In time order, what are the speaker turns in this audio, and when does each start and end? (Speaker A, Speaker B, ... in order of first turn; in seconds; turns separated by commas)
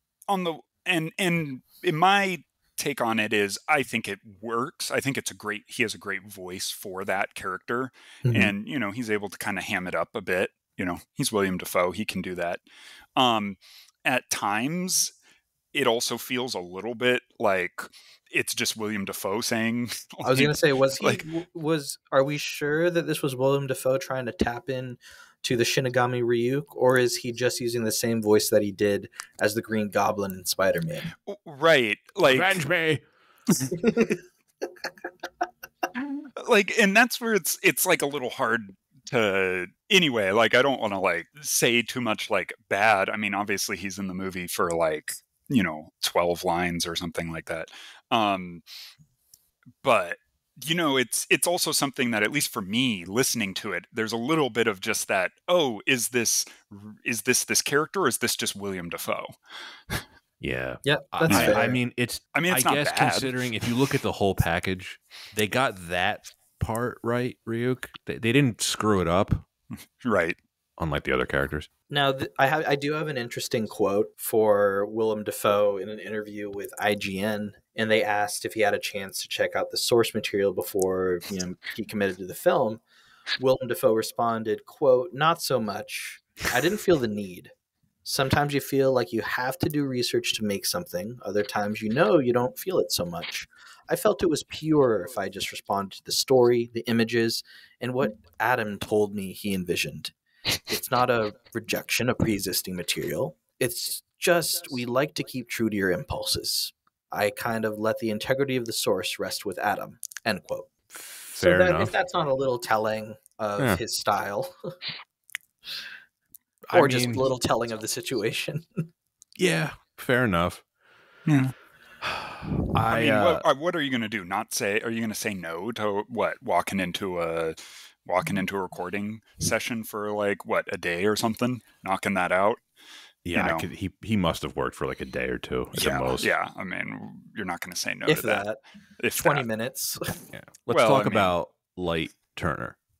Speaker A: 0.3-12.6, Speaker B: 8.2-8.5, Speaker A: 13.2-15.1, Speaker A: 15.7-21.2, Speaker B: 20.2-31.1, Speaker A: 31.2-32.6, Speaker C: 32.3-33.0, Speaker B: 33.8-34.2, Speaker A: 36.4-48.6, Speaker A: 49.8-59.4, Speaker C: 60.4-69.5, Speaker B: 60.8-61.8, Speaker A: 61.3-61.6, Speaker A: 62.3-63.7, Speaker A: 70.0-70.4, Speaker C: 70.8-71.7, Speaker B: 71.9-82.8, Speaker B: 83.4-87.5, Speaker B: 88.0-100.1, Speaker B: 100.7-110.7, Speaker C: 110.9-111.9, Speaker B: 111.3-114.5, Speaker C: 116.7-117.2, Speaker B: 116.7-118.9, Speaker C: 119.4-120.6, Speaker A: 121.3-121.5, Speaker C: 122.0-123.5, Speaker A: 122.9-132.6, Speaker C: 133.2-136.3, Speaker A: 133.3-133.7, Speaker A: 135.8-138.5, Speaker B: 138.1-138.6, Speaker A: 139.0-139.5, Speaker B: 139.1-140.2, Speaker C: 140.3-142.8, Speaker A: 140.7-141.3